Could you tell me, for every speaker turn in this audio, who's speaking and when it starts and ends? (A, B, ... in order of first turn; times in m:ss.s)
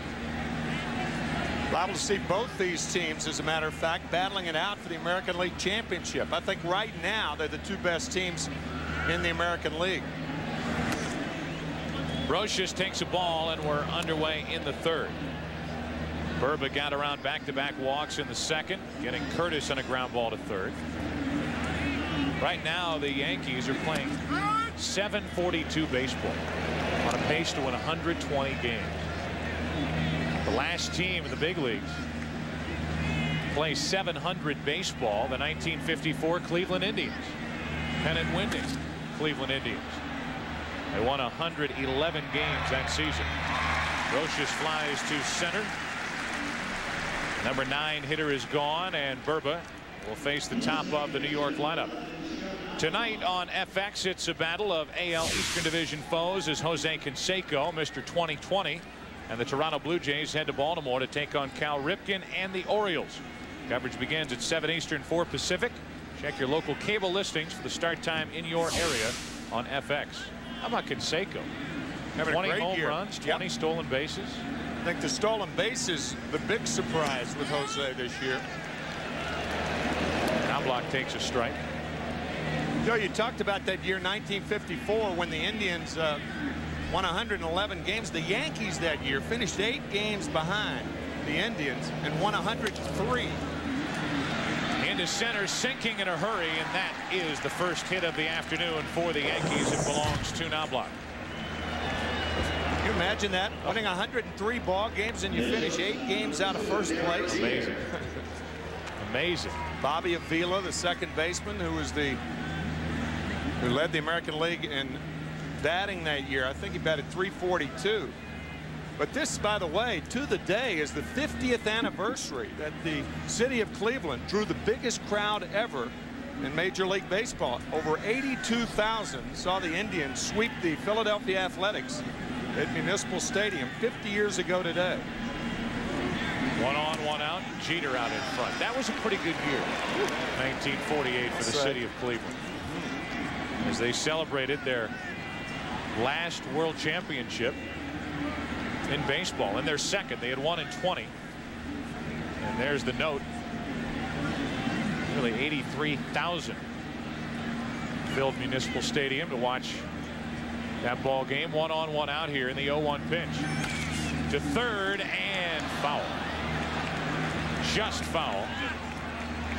0:01.7-0:08.5 A
0:09.1-0:10.1 A
0:12.3-0:15.2 B
0:16.4-0:20.8 B
0:22.4-0:24.2 B
0:24.8-0:26.4 B
0:27.0-0:29.0 B
0:30.4-0:32.0 B
0:33.5-0:37.4 B
0:38.0-0:40.0 B
0:40.9-0:43.3 B
0:44.1-0:45.7 B
0:47.4-0:52.0 B
0:52.8-1:11.5 B
1:12.2-1:13.4 A
1:12.3-1:14.4 B
1:14.8-1:18.4 A
1:20.5-1:21.6 B
1:22.8-1:26.2 A
1:26.9-1:33.4 A
1:34.8-1:41.0 B
1:42.8-1:47.6 A
1:47.3-1:47.9 B
1:49.0-1:49.6 B
1:49.8-1:52.2 A
1:53.6-1:55.0 A
1:55.6-1:58.2 A
1:59.0-2:12.0 A
2:12.6-2:15.0 A
2:16.6-2:19.8 B
2:20.3-2:22.4 B
2:21.3-2:21.8 A
2:22.6-2:23.0 A
2:23.6-2:24.9 B
2:25.9-2:27.6 B
2:28.9-2:31.1 B
2:32.4-2:33.3 B
2:35.1-2:36.6 B
2:38.1-2:39.8 B
2:40.8-2:43.5 B
2:44.3-2:46.2 B
2:47.6-2:48.5 B